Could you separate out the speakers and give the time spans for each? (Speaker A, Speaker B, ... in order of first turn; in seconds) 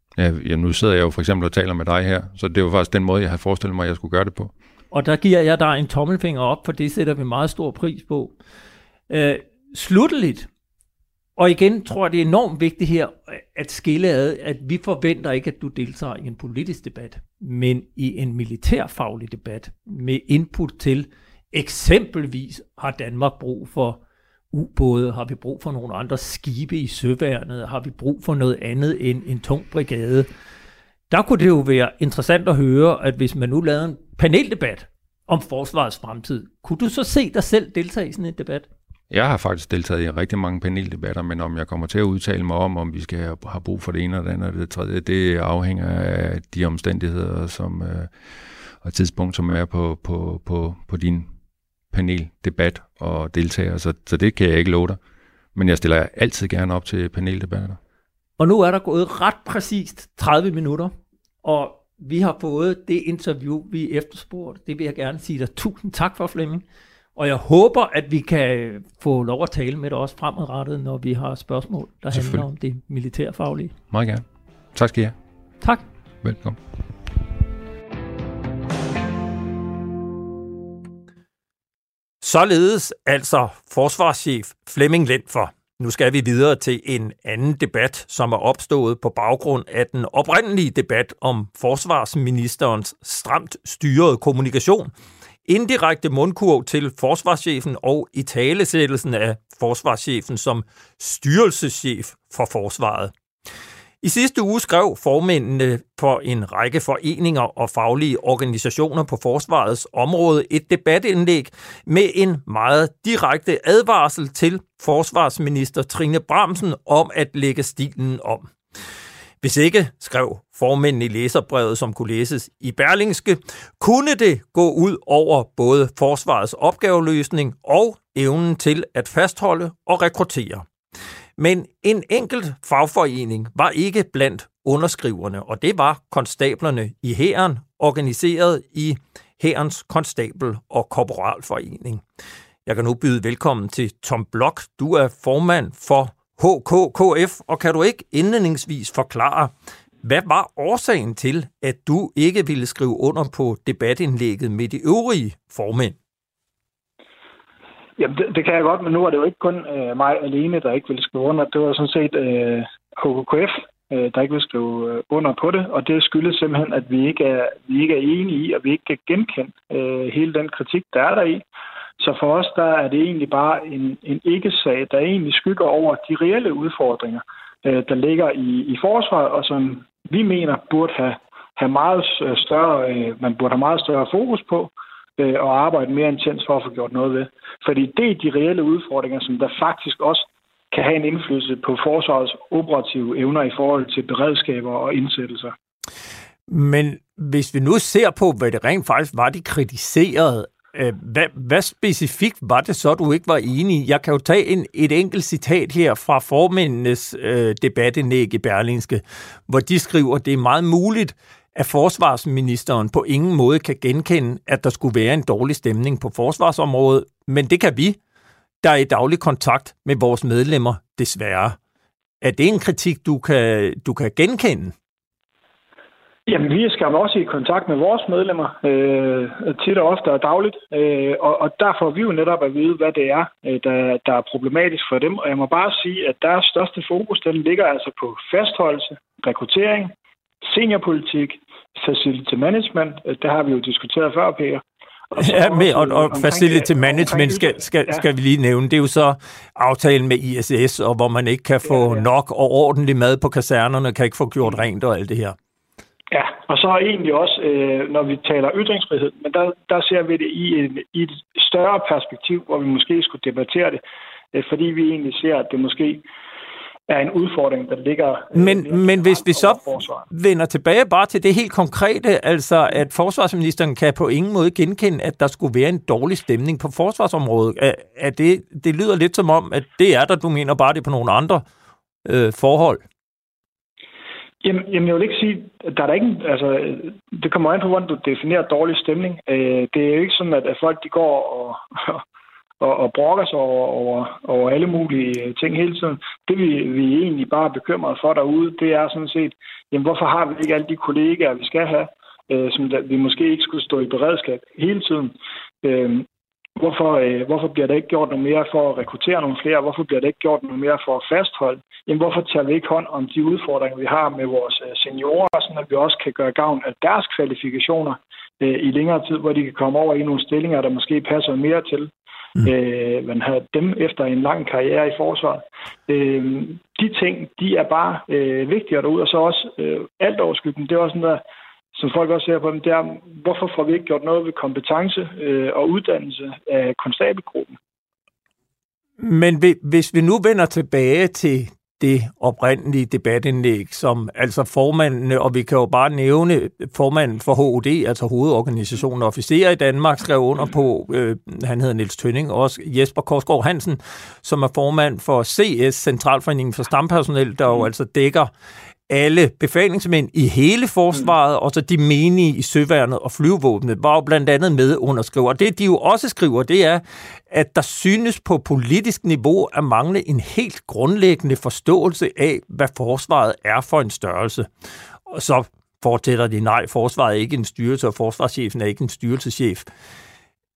Speaker A: 0.2-4.5, 39.1-48.1, 48.8-51.3, 51.9-55.0, 55.5-57.8, 72.1-72.5, 73.9-75.1, 76.2-76.6
Speaker B: 4.9-8.3, 9.1-10.5, 11.4-24.0, 24.5-30.3, 31.1-38.7, 58.4-66.6, 67.2-73.7, 82.2-94.9, 95.5-103.1, 104.0-118.6, 119.4-130.7, 131.4-142.0, 142.7-149.5, 150.0-156.0, 196.5-218.0, 218.6-221.6, 222.2-224.7, 245.2-255.4, 268.3-281.5, 282.1-282.8, 339.0-358.3, 358.9-374.5, 375.1-379.7
Speaker C: 158.0-171.4, 172.0-195.5, 226.3-239.9, 240.4-248.0, 256.1-263.8, 264.3-266.0, 266.9-270.1, 284.4-292.0, 292.6-306.1, 306.6-321.9, 322.4-331.2, 331.7-337.6